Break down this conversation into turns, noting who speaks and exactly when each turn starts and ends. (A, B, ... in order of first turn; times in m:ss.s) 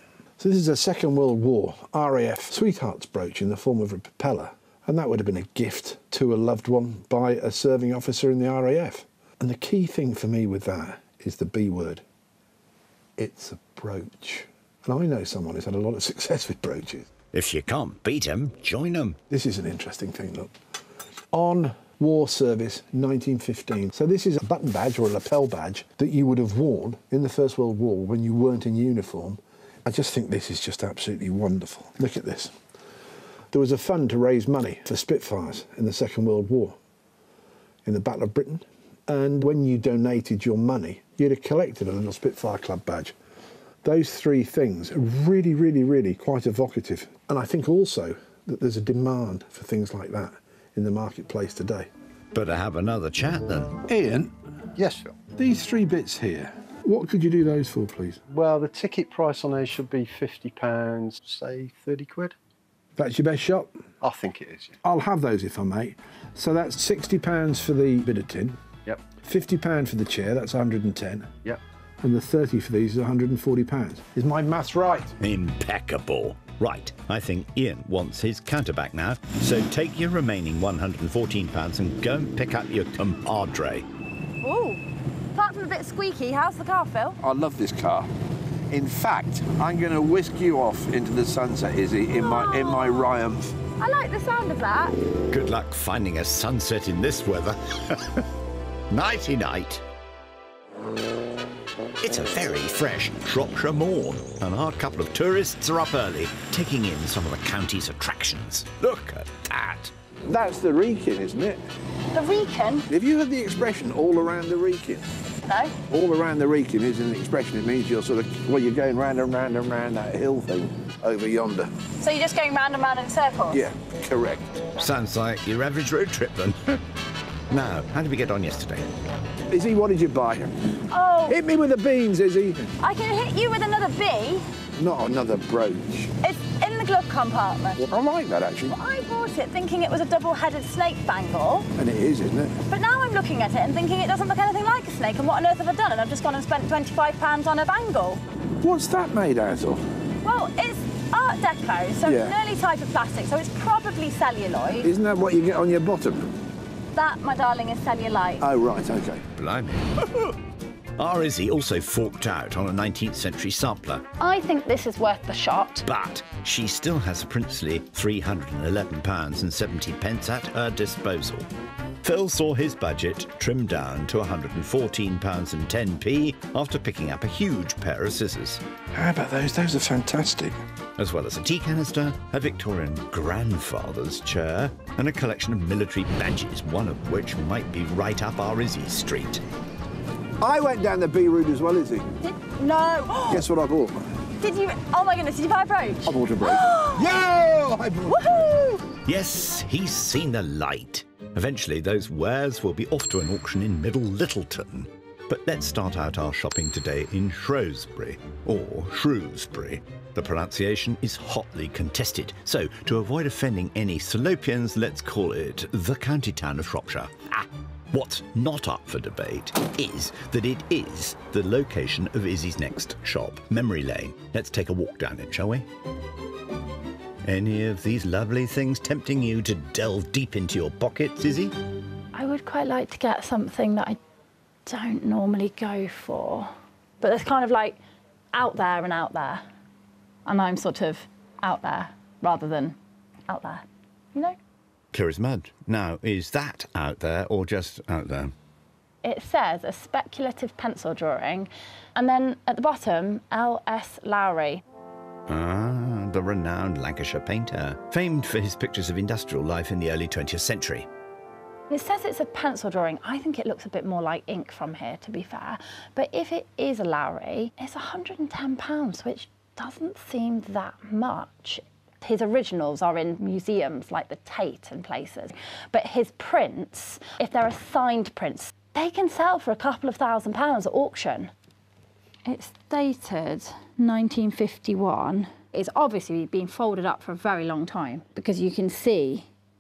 0:00.4-0:12.0 A
0:13.2-0:17.1 A
0:17.3-0:19.2 B
0:19.3-0:20.5 A
0:21.3-0:32.6 A
0:33.5-0:36.8 A
0:37.8-0:43.2 A
0:43.8-0:51.9 A
0:52.3-0:53.8 B
0:53.9-0:54.3 A
0:54.8-0:55.2 C
0:55.4-0:58.2 A
0:58.3-1:02.4 C
1:03.0-1:03.8 A
1:04.0-1:04.8 C
1:04.8-1:08.6 A
1:08.8-1:09.1 C
1:09.2-1:11.3 A
1:12.0-1:15.2 A
1:15.2-1:23.9 B
1:24.4-1:24.8 D
1:25.3-1:27.2 D
1:27.2-1:28.1 A
1:28.7-1:33.6 A
1:32.2-1:33.0 D
1:33.8-1:35.0 D
1:35.3-1:38.3 B
1:38.9-1:39.8 B
1:42.0-1:49.9 B
1:50.2-1:51.6 A
1:52.1-1:52.9 D
1:52.9-1:55.1 A
1:55.5-1:55.8 D
1:55.9-2:01.7 A
2:02.0-2:03.6 D
2:03.5-2:04.6 A
2:04.8-2:06.8 B
2:07.5-2:09.0 B
2:09.5-2:10.5 A
2:10.9-2:11.4 D
2:11.3-2:12.7 A
2:12.8-2:14.5 D
2:14.8-2:16.1 A
2:16.2-2:17.8 D
2:17.8-2:18.8 A
2:18.7-2:21.7 D
2:21.8-2:22.6 A
2:22.7-2:28.2 D
2:28.6-2:29.8 A
2:30.2-2:34.9 D
2:32.0-2:32.4 A
2:34.8-2:36.3 A
2:36.9-2:38.4 D
2:38.4-2:39.3 A
2:39.4-2:40.4 B
2:41.0-2:44.0 B
2:44.2-2:45.8 D
2:45.9-2:51.5 B
2:52.0-2:58.6 B
2:58.9-3:00.6 A
3:01.0-3:09.4 B
3:10.4-3:12.1 A
3:12.2-3:13.5 D
3:13.3-3:14.0 A
3:14.4-3:17.1 D
3:16.0-3:18.6 A
3:18.1-3:18.8 D
3:19.0-3:45.7 B
3:47.2-3:51.5 B
3:52.1-3:54.0 D
3:54.7-3:57.8 D
3:58.3-3:59.4 D
4:00.3-4:02.8 D
4:03.3-4:04.4 D
4:04.9-4:08.3 B
4:09.0-4:14.6 D
4:15.3-4:20.9 B
4:21.7-4:41.3 D
4:42.3-4:49.3 D